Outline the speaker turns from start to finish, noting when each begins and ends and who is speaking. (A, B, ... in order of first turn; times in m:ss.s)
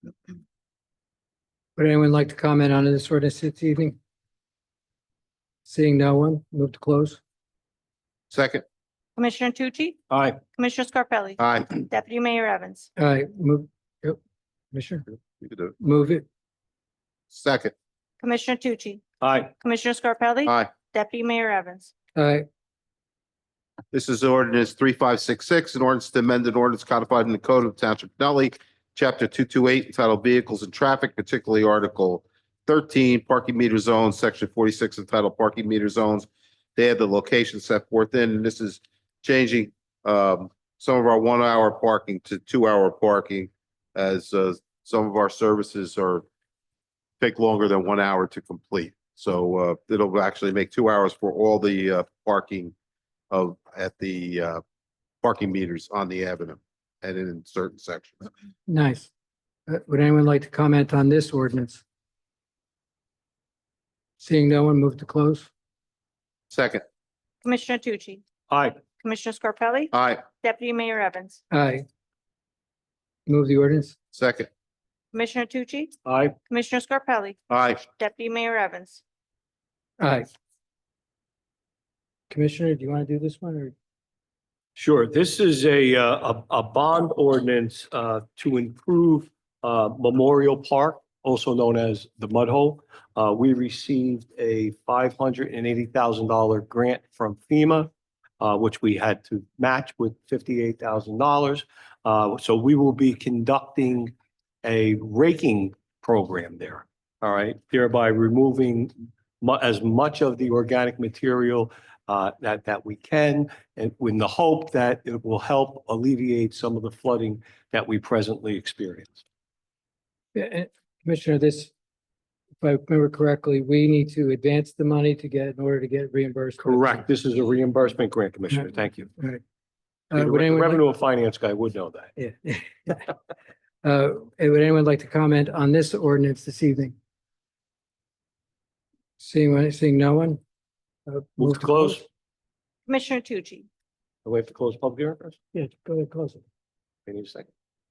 0:01.8-0:04.0 A
0:05.6-0:07.2 A
0:08.3-0:08.6 B
0:09.2-0:10.0 C
0:10.1-0:10.4 D
0:10.6-0:12.9 C
0:11.4-0:11.8 B
0:13.0-0:14.2 A
0:14.7-0:15.0 A
0:15.4-0:15.7 B
0:15.8-0:16.2 A
0:17.3-0:17.7 B
0:18.2-0:19.0 C
0:19.2-0:19.5 D
0:19.6-0:21.9 C
0:20.4-0:20.7 B
0:22.1-0:22.4 A
0:23.9-0:46.2 B
0:47.2-0:52.7 B
0:53.3-0:54.6 B
0:55.2-0:58.3 B
0:58.7-0:59.1 A
0:59.7-1:01.8 A
1:04.2-1:05.5 A
1:06.5-1:06.8 B
1:07.4-1:08.2 C
1:08.5-1:08.8 D
1:09.0-1:11.4 C
1:09.9-1:10.2 B
1:11.5-1:11.8 A
1:13.3-1:14.0 A
1:14.1-1:14.5 B
1:15.1-1:15.9 C
1:16.0-1:16.3 D
1:16.5-1:17.4 C
1:17.5-1:17.8 B
1:18.0-1:19.0 C
1:20.0-1:20.2 A
1:22.3-1:23.7 A
1:24.8-1:44.1 D
1:44.6-1:59.2 D
2:00.3-2:01.7 A
2:02.6-2:07.0 A
2:06.6-2:09.1 D
2:09.2-2:09.4 A
2:10.1-2:10.8 A
2:10.1-2:12.1 D
2:12.2-2:13.1 A
2:13.8-2:17.0 A
2:19.2-2:20.4 A
2:21.1-2:22.0 A
2:21.4-2:22.0 D
2:22.9-2:23.7 C
2:24.2-2:25.4 D
2:25.5-2:26.4 A
2:27.1-2:27.5 D